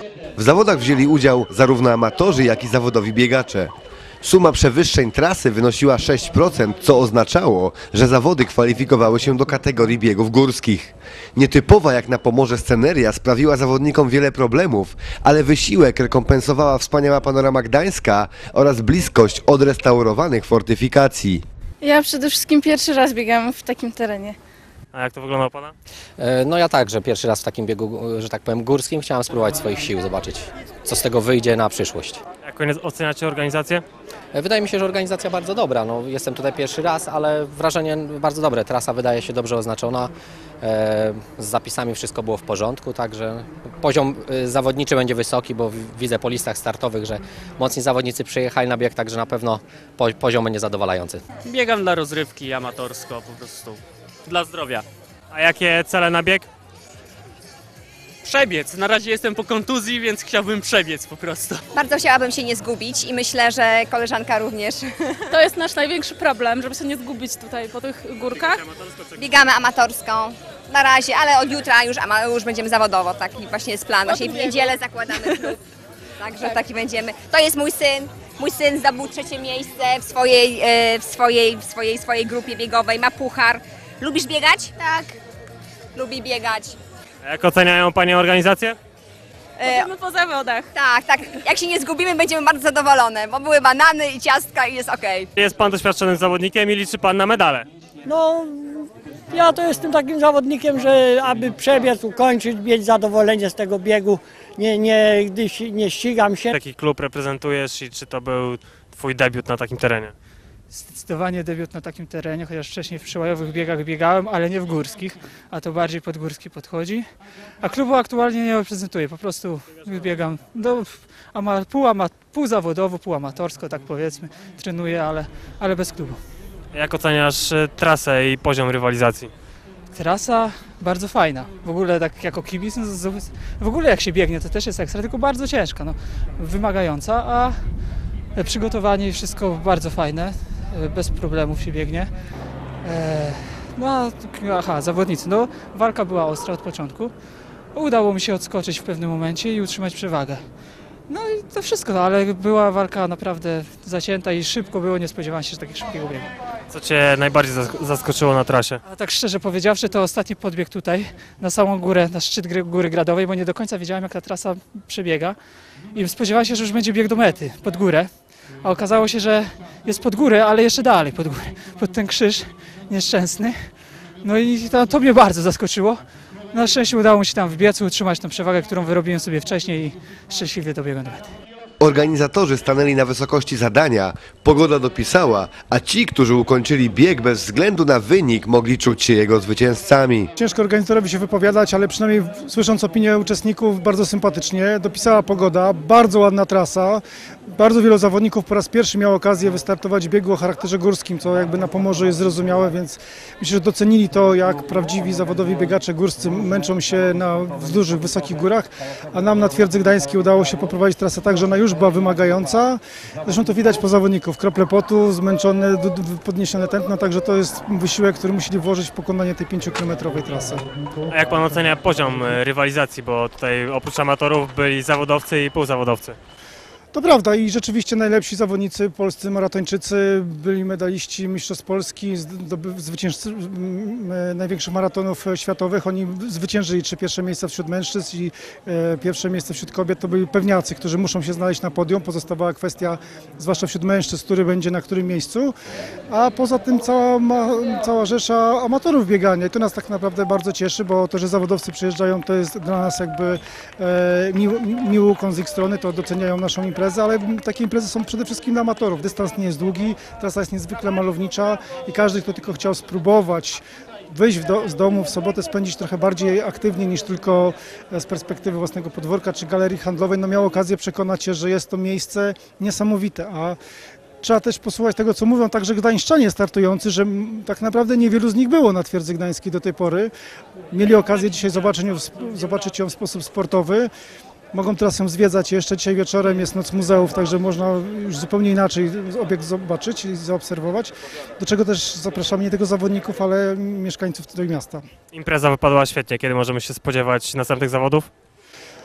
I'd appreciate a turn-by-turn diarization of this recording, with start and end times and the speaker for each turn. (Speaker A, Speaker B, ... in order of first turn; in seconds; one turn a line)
Speaker A: 0.3-21.4
Speaker B: 21.8-24.4
Speaker C: 24.9-25.7
Speaker D: 26.2-32.2
Speaker C: 32.4-33.8
Speaker D: 34.3-51.2
Speaker E: 51.5-54.8
Speaker C: 55.3-56.5
Speaker E: 58.2-61.6
Speaker F: 61.7-65.3
Speaker B: 65.3-68.6
Speaker C: 68.5-69.0
Speaker F: 69.2-75.6
Speaker B: 74.1-75.5
Speaker F: 76.2-85.2
Speaker F: 85.9-86.8
Speaker C: 87.2-88.8
Speaker F: 89.6-89.9
Speaker B: 89.7-90.7
Speaker F: 90.7-95.3
Speaker C: 95.4-97.7
Speaker G: 98.0-106.6
Speaker C: 106.5-110.1
Speaker H: 110.7-117.1
Speaker H: 117.6-126.2
Speaker C: 126.7-129.3
Speaker H: 129.9-137.6
Speaker H: 138.3-142.1
Speaker H: 142.8-147.1
Speaker H: 147.7-150.4
Speaker H: 151.1-156.3
Speaker C: 156.7-158.8
Speaker H: 158.9-165.4
Speaker H: 165.9-168.1
Speaker H: 168.6-173.7
Speaker H: 174.2-176.0
Speaker H: 176.5-181.3
Speaker A: 181.8-190.3
Speaker I: 190.4-220.6
Speaker C: 221.1-226.2
Speaker I: 226.9-245.5
Speaker I: 246.1-273.6
Speaker I: 274.2-280.1
Speaker I: 280.7-283.9
Speaker I: 284.5-294.8
Speaker C: 295.1-298.1